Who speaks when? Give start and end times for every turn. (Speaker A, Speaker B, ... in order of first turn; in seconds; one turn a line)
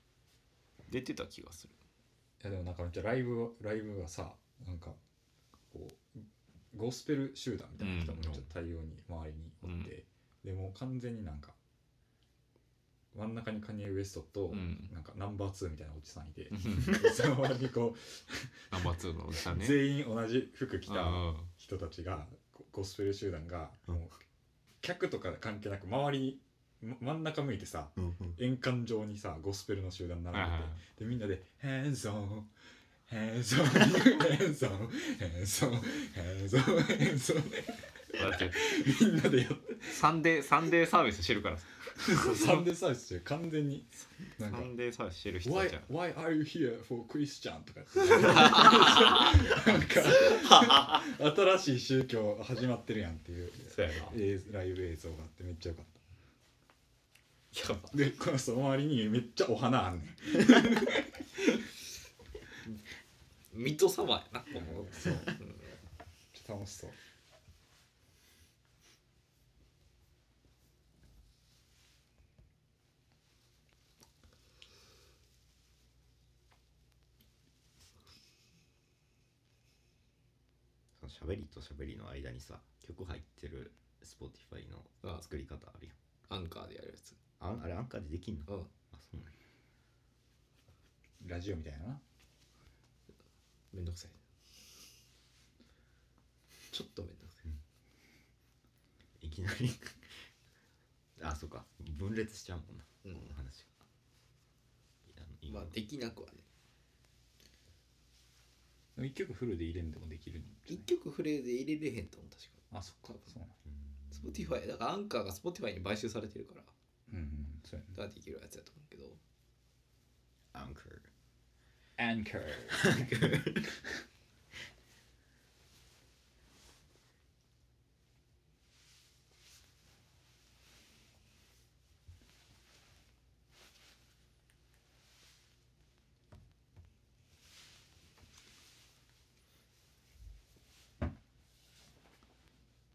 Speaker A: 0.9-1.8
Speaker B: 2.4-5.0
Speaker B: 5.7-11.6
Speaker A: 7.8-8.3
Speaker A: 9.6-9.9
Speaker B: 13.1-24.2
Speaker A: 14.5-14.9
Speaker A: 16.5-17.0
Speaker A: 18.7-19.8
Speaker A: 20.9-21.5
Speaker B: 24.8-32.5
Speaker C: 27.9-28.4
Speaker A: 30.3-30.8
Speaker B: 33.1-40.1
Speaker A: 38.1-38.6
Speaker A: 39.9-42.6
Speaker B: 42.0-44.7
Speaker A: 44.4-45.9
Speaker B: 45.4-56.0
Speaker A: 48.1-49.5
Speaker A: 50.1-51.0
Speaker A: 53.6-54.1
Speaker A: 57.5-58.0
Speaker B: 57.9-61.7
Speaker A: 63.5-65.7
Speaker B: 64.5-65.4
Speaker B: 66.3-67.0
Speaker C: 81.0-85.9
Speaker A: 86.3-87.2
Speaker C: 87.4-89.3
Speaker B: 91.2-92.0
Speaker A: 93.7-94.2
Speaker A: 96.7-97.4
Speaker C: 99.2-100.3
Speaker C: 101.2-103.7
Speaker A: 103.0-103.3
Speaker C: 105.1-105.8
Speaker A: 105.5-106.4
Speaker B: 109.0-110.9
Speaker A: 110.7-112.6
Speaker B: 112.7-113.6
Speaker C: 113.7-114.4
Speaker A: 114.1-116.7
Speaker B: 117.1-118.0
Speaker A: 117.9-119.2
Speaker C: 120.5-121.1
Speaker B: 122.0-124.0
Speaker C: 122.7-123.7